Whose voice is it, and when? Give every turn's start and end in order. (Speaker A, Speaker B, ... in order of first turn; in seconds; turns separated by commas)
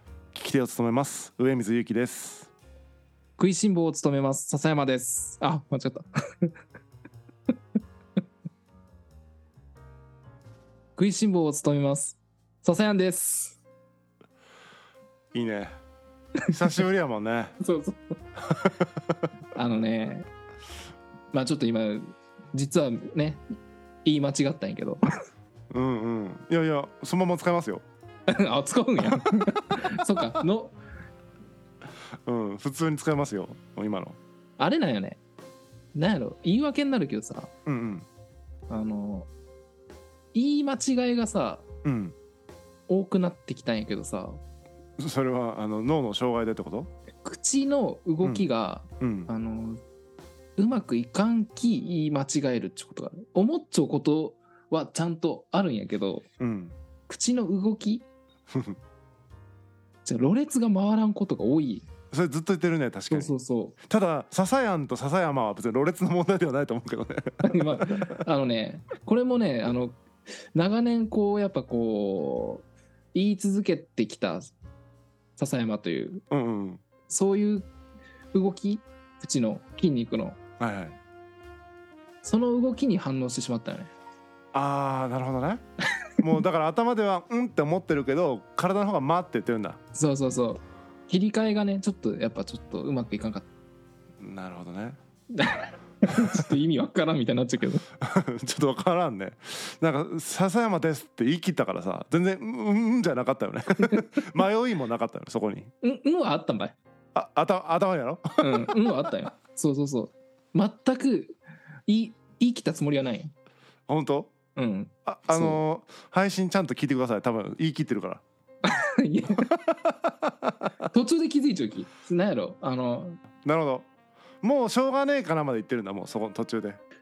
Speaker A: 0.3-2.5, Speaker B: 3.4-6.5, Speaker B: 10.9-13.6, Speaker A: 15.3-15.8, Speaker A: 16.5-17.5, Speaker B: 17.6-18.2, Speaker A: 18.4-19.3, Speaker B: 19.5-20.3, Speaker B: 21.3-23.4, Speaker B: 24.0-25.0, Speaker A: 25.7-27.8, Speaker B: 28.3-30.8, Speaker A: 29.0-30.2, Speaker A: 32.2-34.2, Speaker B: 34.6-35.2, Speaker B: 35.9-37.5, Speaker A: 37.6-38.0, Speaker B: 38.7-39.3, Speaker B: 40.3-41.6, Speaker A: 41.8-42.1, Speaker B: 42.9-44.4, Speaker A: 45.0-46.9, Speaker B: 47.2-49.8, Speaker A: 49.0-49.3, Speaker B: 50.6-56.2, Speaker A: 56.4-56.7, Speaker B: 57.1-58.0, Speaker A: 58.5-58.8, Speaker B: 60.0-61.9, Speaker A: 62.1-63.3, Speaker B: 63.1-63.8, Speaker A: 63.9-68.2, Speaker B: 67.4-70.0, Speaker B: 70.5-74.5, Speaker B: 75.4-76.2, Speaker A: 76.3-76.8, Speaker B: 77.1-77.7, Speaker B: 78.3-80.4, Speaker A: 80.6-81.0, Speaker B: 82.2-83.9, Speaker A: 84.5-85.6, Speaker A: 86.2-89.8, Speaker B: 89.9-93.5, Speaker A: 94.2-95.0, Speaker B: 95.3-97.8, Speaker A: 96.1-96.5, Speaker A: 98.0-105.7, Speaker B: 103.8-104.3, Speaker B: 105.8-106.8, Speaker A: 107.1-109.1, Speaker B: 108.4-113.3, Speaker A: 113.9-114.3, Speaker B: 114.5-115.6, Speaker A: 115.1-118.2, Speaker B: 118.6-119.5, Speaker A: 119.4-120.7, Speaker B: 120.9-123.2, Speaker A: 123.4-123.9, Speaker A: 124.4-126.8